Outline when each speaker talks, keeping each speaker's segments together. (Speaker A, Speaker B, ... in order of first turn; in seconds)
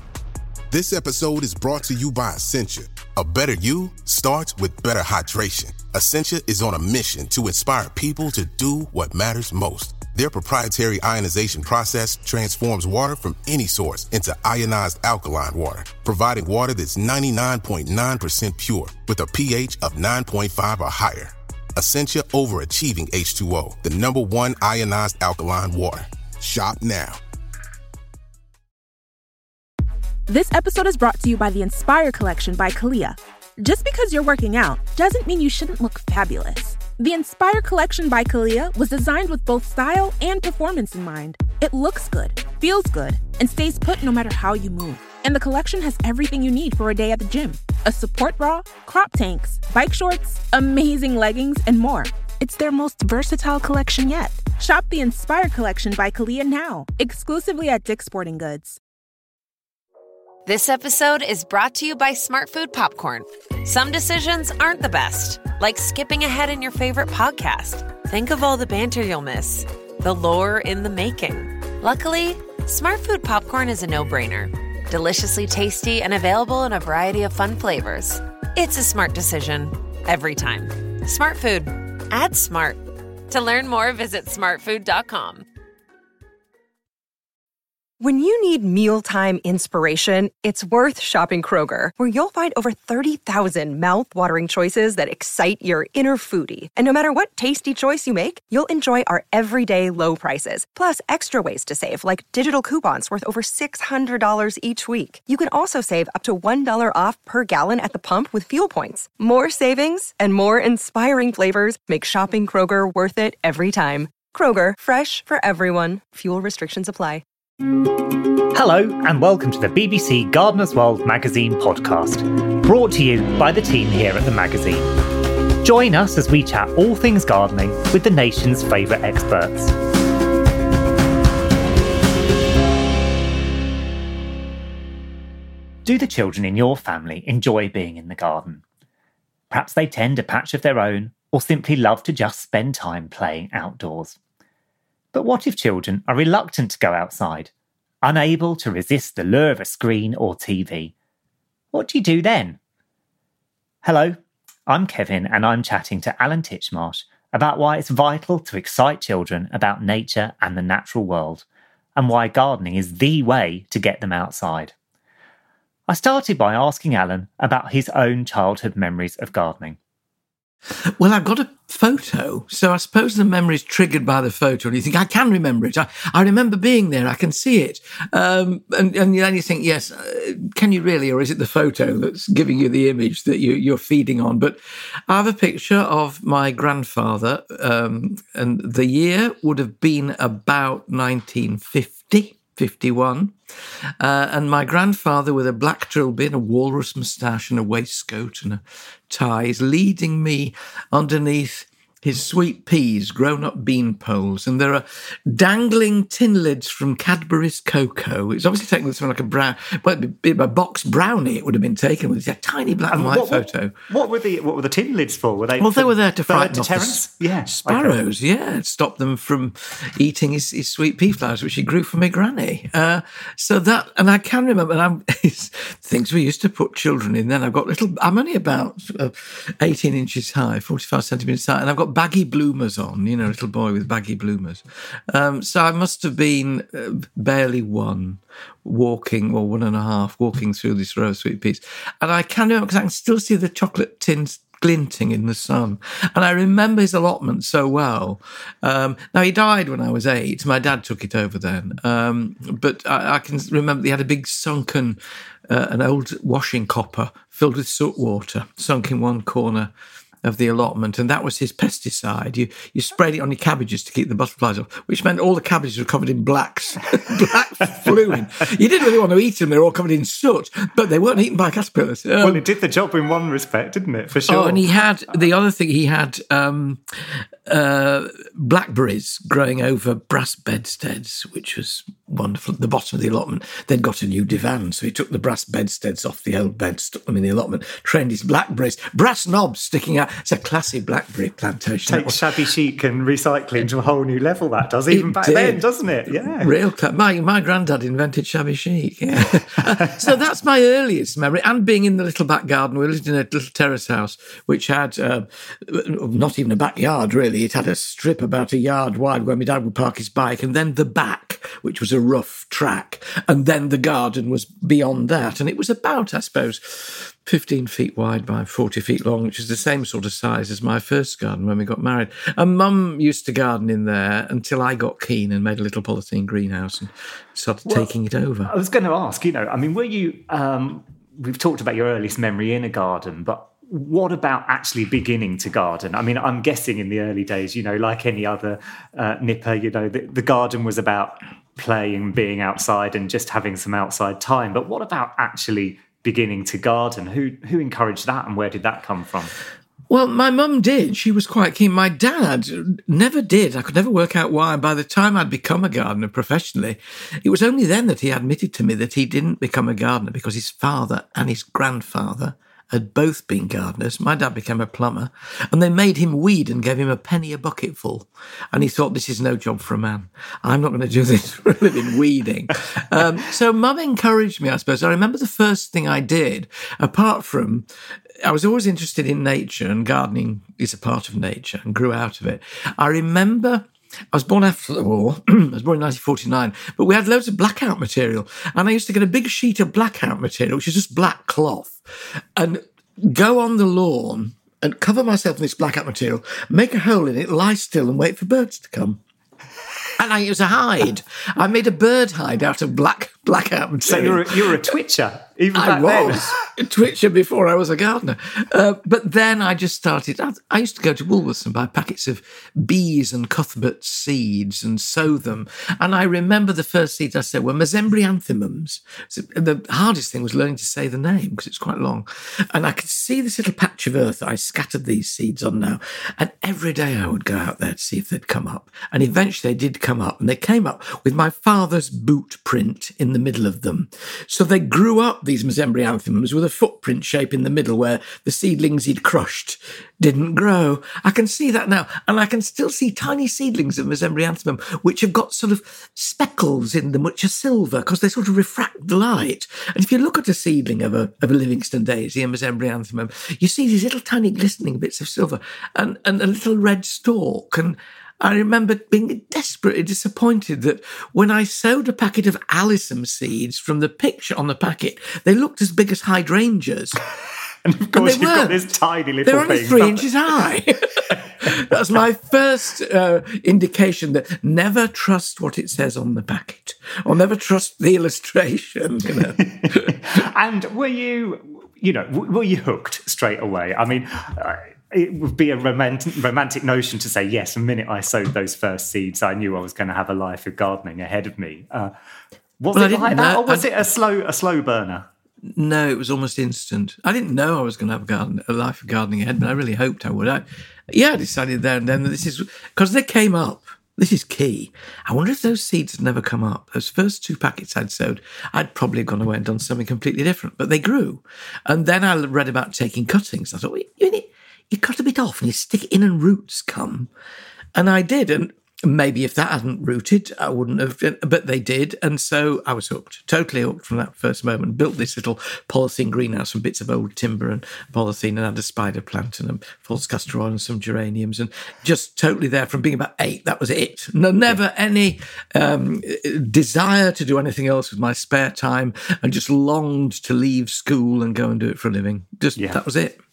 Speaker A: 0.7-27.2
Speaker B: 30.3-58.8
Speaker C: 60.5-85.4
Speaker D: 88.0-117.2
Speaker E: 118.5-124.9, 125.6-129.7, 135.8-138.6, 139.5-144.2, 145.1-147.5, 148.0-150.9, 151.7-152.6, 153.8-161.4, 161.9-164.7, 165.9-169.8, 212.9-218.0, 272.2-274.6, 291.9-296.5, 328.4-349.3, 403.8-406.3, 467.6-470.1, 479.4-491.9, 492.6-495.1, 542.5-542.8
Speaker F: 171.0-193.3, 194.0-213.7, 215.6-259.7, 260.2-272.4, 274.3-276.8, 277.4-292.3, 294.9-328.5, 349.9-377.7, 378.2-399.0, 400.0-404.6, 405.5-467.0, 467.9-468.7, 469.2-479.9, 492.7-493.7, 495.4-517.1, 517.7-543.2